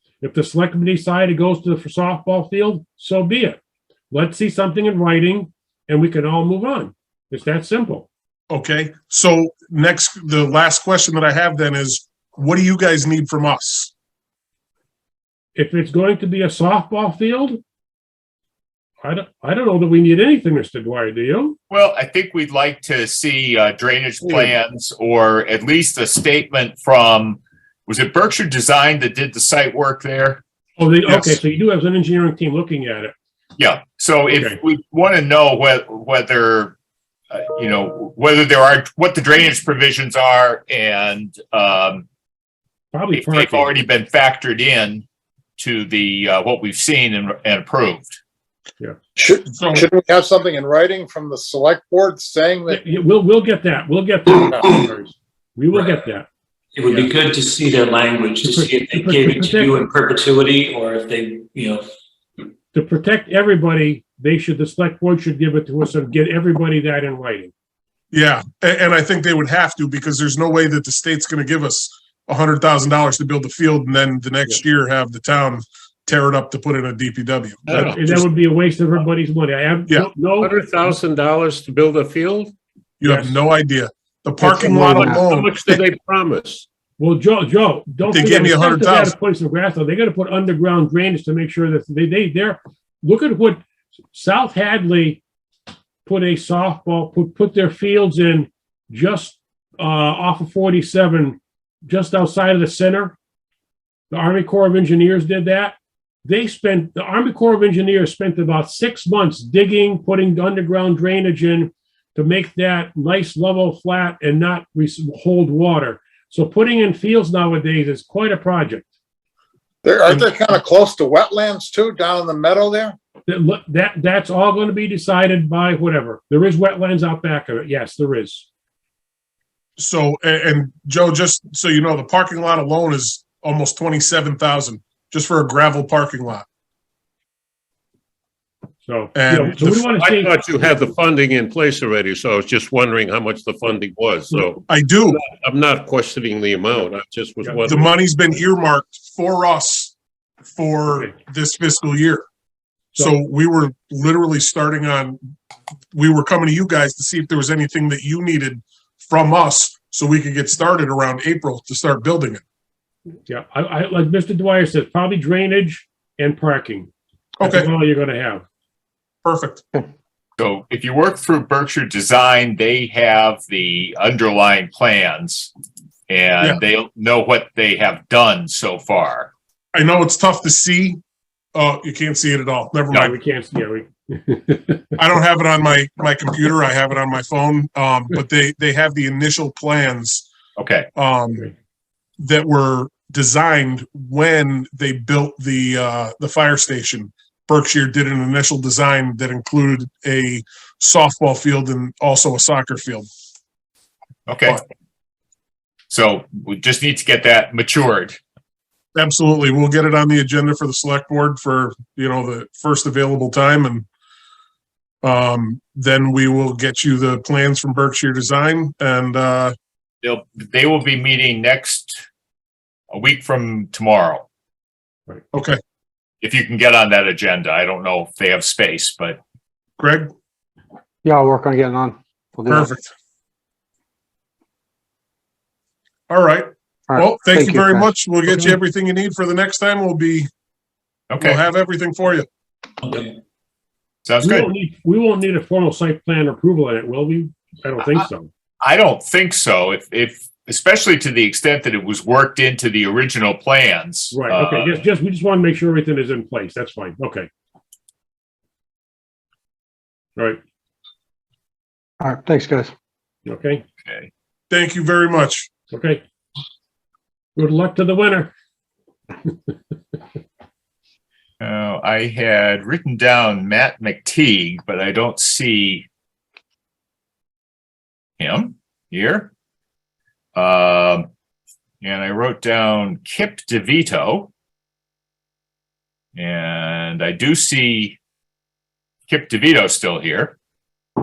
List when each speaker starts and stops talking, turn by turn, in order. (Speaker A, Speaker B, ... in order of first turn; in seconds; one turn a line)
Speaker A: 0.2-3.6
Speaker A: 4.1-8.1
Speaker B: 8.5-13.9
Speaker A: 15.6-17.6
Speaker A: 19.0-21.6
Speaker C: 21.7-30.4
Speaker A: 30.8-33.1
Speaker B: 31.1-31.4
Speaker C: 33.6-36.8
Speaker A: 34.3-34.6
Speaker C: 37.3-42.0
Speaker A: 42.9-43.7
Speaker C: 43.1-45.0
Speaker C: 45.6-48.2
Speaker D: 49.2-52.8
Speaker B: 49.5-49.9
Speaker A: 52.7-56.3
Speaker E: 56.7-61.9
Speaker A: 58.4-59.8
Speaker A: 62.7-67.5
Speaker B: 68.1-78.2
Speaker F: 77.7-78.0
Speaker A: 77.9-80.5
Speaker F: 80.4-82.5
Speaker B: 83.0-85.8
Speaker A: 83.0-83.4
Speaker G: 84.4-85.2
Speaker F: 84.5-86.7
Speaker A: 87.0-93.6
Speaker B: 88.1-89.2
Speaker A: 94.1-95.2
Speaker A: 96.1-103.2
Speaker A: 104.1-118.9
Speaker D: 119.8-123.0
Speaker B: 120.1-120.3
Speaker A: 123.3-128.5
Speaker B: 129.8-136.4
Speaker A: 138.8-140.3
Speaker B: 139.1-139.8
Speaker F: 139.8-147.9
Speaker B: 144.7-145.2
Speaker A: 147.4-147.8
Speaker B: 147.7-149.9
Speaker B: 150.5-152.2
Speaker B: 152.9-155.2
Speaker B: 155.9-162.4
Speaker A: 163.3-166.9
Speaker B: 167.4-167.7
Speaker A: 167.4-168.4
Speaker B: 169.2-169.6
Speaker C: 170.4-175.5
Speaker C: 176.1-179.3
Speaker B: 179.7-181.0
Speaker B: 181.5-183.1
Speaker A: 182.9-184.9
Speaker B: 185.0-190.2
Speaker C: 190.6-190.9
Speaker B: 190.9-191.5
Speaker B: 192.2-203.1
Speaker C: 204.3-204.6
Speaker C: 205.9-208.2
Speaker B: 208.9-213.8
Speaker B: 215.0-219.5
Speaker C: 220.0-222.0
Speaker C: 222.9-224.2
Speaker B: 225.3-225.6
Speaker C: 226.2-229.2
Speaker B: 229.8-230.1
Speaker G: 231.0-232.7
Speaker B: 232.5-232.8
Speaker B: 236.1-240.3
Speaker G: 236.9-238.6
Speaker C: 241.1-241.4
Speaker B: 241.2-242.3
Speaker C: 244.1-244.5
Speaker A: 244.2-248.3
Speaker C: 248.6-254.8
Speaker A: 254.1-257.3
Speaker G: 262.0-262.7
Speaker A: 263.2-263.6
Speaker B: 264.5-265.5
Speaker A: 265.7-266.0
Speaker A: 267.4-268.3
Speaker C: 271.4-275.9
Speaker C: 278.2-279.3
Speaker C: 280.3-281.1
Speaker C: 281.8-284.3
Speaker C: 286.1-288.0
Speaker C: 289.1-290.4